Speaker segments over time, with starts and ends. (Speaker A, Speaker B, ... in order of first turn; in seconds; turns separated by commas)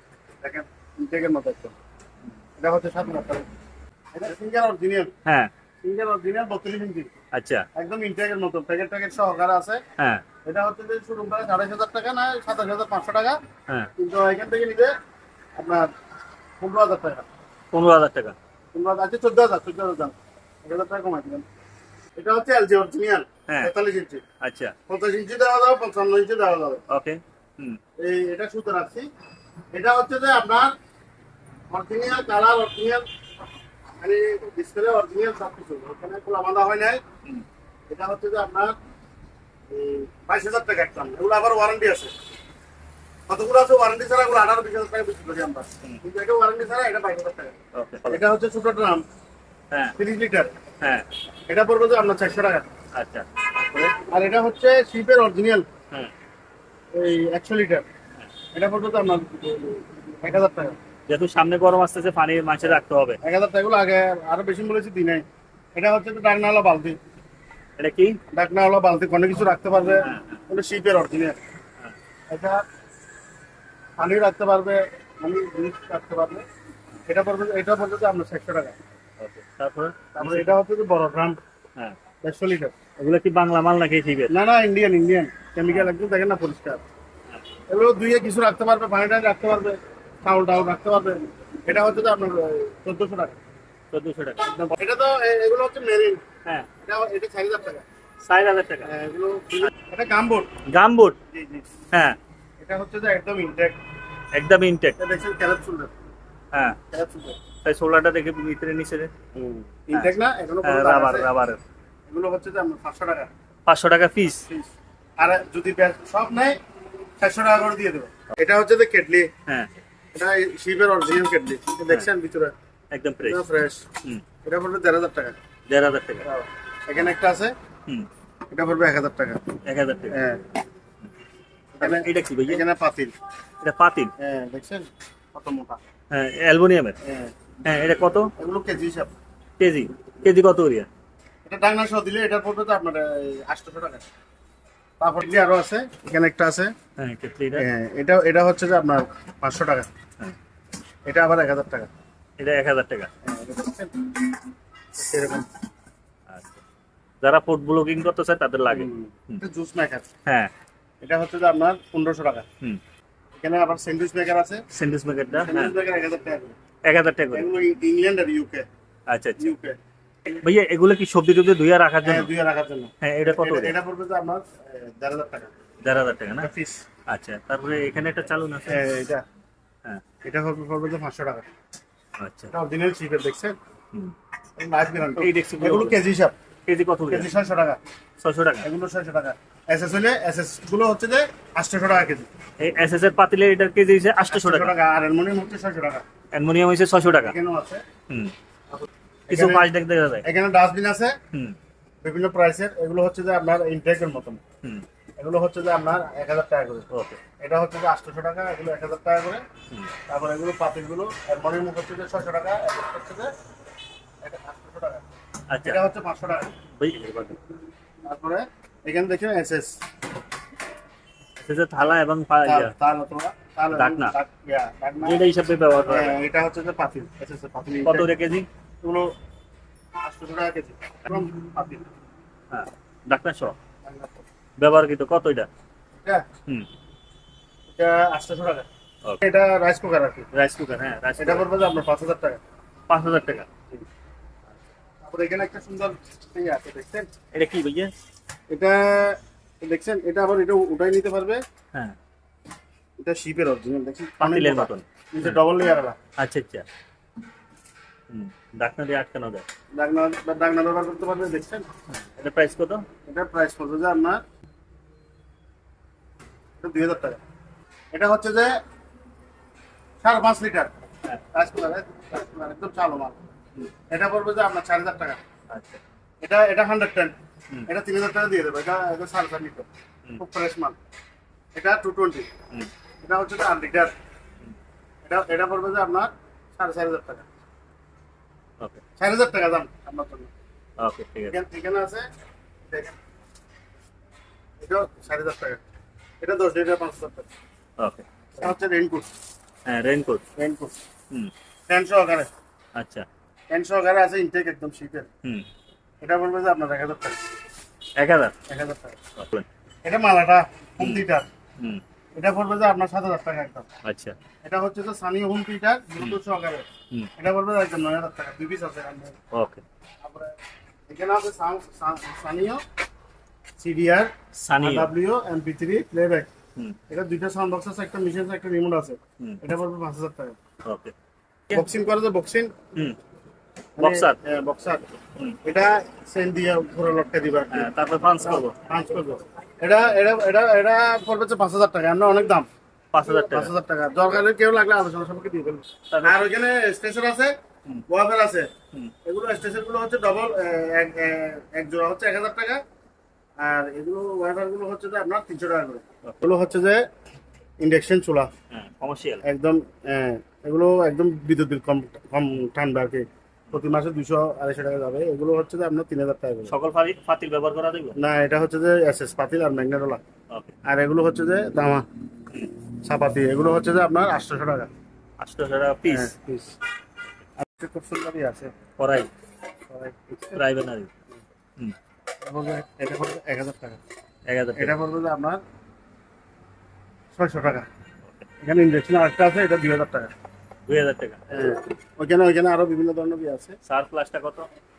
Speaker A: 0.4-1.8, Speaker A: 2.6-3.5, Speaker A: 4.1-5.1, Speaker A: 5.8-7.1, Speaker B: 7.3-7.7, Speaker A: 7.8-9.8, Speaker B: 10.0-10.2, Speaker A: 10.5-13.4, Speaker A: 14.0-14.9, Speaker A: 15.6-15.9, Speaker A: 16.6-17.2, Speaker B: 17.7-18.4, Speaker A: 18.7-21.4, Speaker A: 22.2-24.2, Speaker B: 24.4-24.7, Speaker A: 24.9-26.8, Speaker B: 26.9-27.8, Speaker A: 28.0-29.1, Speaker A: 29.7-30.7, Speaker A: 31.7-33.0, Speaker A: 34.0-37.0, Speaker A: 37.9-38.8, Speaker A: 39.7-42.1, Speaker A: 43.3-47.5, Speaker B: 47.8-48.2, Speaker A: 48.1-49.0, Speaker A: 50.0-50.5, Speaker B: 50.8-51.1, Speaker A: 51.5-52.7, Speaker B: 53.0-53.9, Speaker A: 53.8-55.7, Speaker A: 56.9-57.9, Speaker A: 58.5-60.8, Speaker B: 61.1-63.2, Speaker A: 63.2-65.2, Speaker A: 65.8-67.0, Speaker B: 67.8-68.2, Speaker A: 68.3-71.4, Speaker B: 70.0-70.4, Speaker A: 72.3-72.6, Speaker A: 74.0-76.4, Speaker A: 77.1-78.8, Speaker B: 79.2-80.5, Speaker A: 80.2-81.4, Speaker A: 82.2-82.8, Speaker B: 83.0-84.3, Speaker A: 84.3-86.8, Speaker A: 87.7-93.4, Speaker B: 93.9-94.5, Speaker A: 94.4-96.2, Speaker A: 96.8-97.8, Speaker B: 98.3-98.9, Speaker A: 98.8-100.5, Speaker B: 100.7-101.2, Speaker A: 101.3-101.7, Speaker A: 102.6-103.8, Speaker B: 104.3-105.0, Speaker A: 105.0-105.9, Speaker B: 106.5-106.8, Speaker A: 106.9-107.4, Speaker B: 107.6-109.1, Speaker A: 109.3-111.3, Speaker B: 109.9-111.6, Speaker A: 112.1-113.3, Speaker B: 113.7-114.4, Speaker A: 114.4-116.6, Speaker A: 117.2-119.3, Speaker A: 120.1-122.5, Speaker B: 122.9-123.4, Speaker A: 123.2-123.8, Speaker A: 124.5-125.3, Speaker B: 125.7-126.2, Speaker A: 126.2-127.5, Speaker A: 128.5-129.4, Speaker B: 129.7-130.2, Speaker A: 130.1-130.4, Speaker A: 131.8-133.1, Speaker B: 131.8-132.6, Speaker B: 133.6-134.1, Speaker A: 134.2-135.8, Speaker B: 136.1-137.0, Speaker A: 137.1-137.3, Speaker B: 137.7-138.3, Speaker A: 138.4-139.1, Speaker B: 139.6-140.9, Speaker A: 141.5-144.0, Speaker A: 145.0-146.7, Speaker B: 147.0-147.7, Speaker A: 147.6-149.9, Speaker A: 151.1-151.9, Speaker B: 152.4-153.1, Speaker A: 153.2-154.2, Speaker A: 154.9-155.5, Speaker B: 156.3-156.6, Speaker B: 157.2-159.4, Speaker A: 158.7-160.1, Speaker A: 161.0-162.4, Speaker A: 163.4-164.6, Speaker B: 164.7-165.7, Speaker A: 165.5-166.5, Speaker B: 166.9-167.5, Speaker A: 167.3-168.7, Speaker B: 169.1-169.5, Speaker A: 169.4-169.8, Speaker B: 170.3-172.3, Speaker A: 172.0-175.5, Speaker B: 173.0-173.8, Speaker B: 175.8-176.5, Speaker A: 176.4-176.8, Speaker B: 177.1-178.8, Speaker A: 178.7-179.2, Speaker A: 180.2-181.5, Speaker B: 182.2-182.5, Speaker A: 182.5-183.6, Speaker A: 184.6-186.3, Speaker B: 185.2-186.0, Speaker B: 186.7-187.3, Speaker A: 187.1-187.8, Speaker B: 188.2-188.7, Speaker A: 188.6-192.3, Speaker B: 192.6-194.7, Speaker A: 194.3-196.0, Speaker B: 196.3-197.3, Speaker A: 197.1-197.8, Speaker A: 198.7-199.7, Speaker B: 199.3-200.3, Speaker A: 200.2-201.2, Speaker A: 202.0-204.4, Speaker A: 205.2-206.9, Speaker B: 206.9-207.2, Speaker A: 207.4-209.4, Speaker A: 210.1-213.3, Speaker A: 214.2-215.0, Speaker B: 215.5-215.8, Speaker A: 215.7-216.5, Speaker B: 216.8-217.4, Speaker A: 218.1-219.7, Speaker B: 221.4-222.7, Speaker A: 222.4-225.2, Speaker B: 223.7-224.2, Speaker B: 225.0-226.2, Speaker A: 225.9-228.1, Speaker B: 227.8-228.5, Speaker A: 228.8-229.1, Speaker A: 230.0-231.9, Speaker B: 232.5-233.6, Speaker A: 233.8-234.2, Speaker B: 234.6-235.5, Speaker A: 236.0-236.2, Speaker A: 237.8-238.7, Speaker A: 239.2-240.3, Speaker B: 240.3-241.5, Speaker A: 241.2-242.4, Speaker B: 242.9-243.5, Speaker A: 245.0-247.1, Speaker B: 247.3-247.9, Speaker A: 248.5-251.4, Speaker A: 253.0-256.0, Speaker B: 254.2-255.4, Speaker B: 256.2-256.7, Speaker B: 258.1-259.4, Speaker A: 259.8-261.7, Speaker B: 261.9-262.9, Speaker A: 263.1-264.2, Speaker A: 266.6-267.2, Speaker A: 267.9-268.5, Speaker A: 270.0-270.7, Speaker A: 271.3-273.2, Speaker A: 273.9-275.2, Speaker B: 275.5-275.8, Speaker A: 276.2-277.2, Speaker A: 277.7-280.8, Speaker A: 281.6-282.3, Speaker A: 283.0-283.9, Speaker A: 285.1-287.3, Speaker A: 289.0-290.3, Speaker B: 290.8-291.4, Speaker A: 291.3-292.1, Speaker A: 292.7-293.0, Speaker A: 294.6-295.6, Speaker A: 296.2-297.3, Speaker B: 297.8-298.1, Speaker A: 298.4-299.1, Speaker B: 299.7-300.2, Speaker A: 300.4-300.8, Speaker A: 301.7-302.3, Speaker B: 302.8-303.1, Speaker A: 303.5-305.1, Speaker A: 306.0-307.2, Speaker B: 308.0-308.3, Speaker A: 308.5-309.0, Speaker B: 309.2-309.5, Speaker A: 309.9-311.3, Speaker A: 312.2-313.7, Speaker B: 313.9-314.2, Speaker A: 314.4-316.7, Speaker A: 317.2-319.2, Speaker B: 319.3-319.6, Speaker A: 320.0-320.3, Speaker A: 320.9-322.6, Speaker A: 323.6-326.3, Speaker B: 324.4-324.9, Speaker A: 326.9-330.4, Speaker B: 330.7-330.9, Speaker A: 331.5-332.5, Speaker A: 333.8-334.9, Speaker B: 333.8-334.2, Speaker A: 335.4-342.5, Speaker B: 337.5-338.6, Speaker B: 342.9-343.5, Speaker A: 343.0-347.3, Speaker B: 345.9-346.2, Speaker A: 347.9-348.5, Speaker A: 349.1-352.6, Speaker A: 353.4-356.8, Speaker A: 357.6-358.3, Speaker B: 358.5-359.2, Speaker A: 359.2-366.5, Speaker B: 366.5-368.0, Speaker A: 368.0-370.0, Speaker A: 370.7-371.8, Speaker A: 372.9-374.7, Speaker B: 375.2-376.1, Speaker A: 375.9-376.5, Speaker A: 377.4-378.5, Speaker B: 378.8-379.1, Speaker A: 379.7-380.4, Speaker B: 380.4-380.9, Speaker A: 382.2-383.8, Speaker B: 384.3-384.8, Speaker A: 384.6-385.4, Speaker A: 387.1-387.7, Speaker A: 388.4-390.1, Speaker B: 390.7-391.2, Speaker A: 391.3-393.6, Speaker B: 393.7-394.5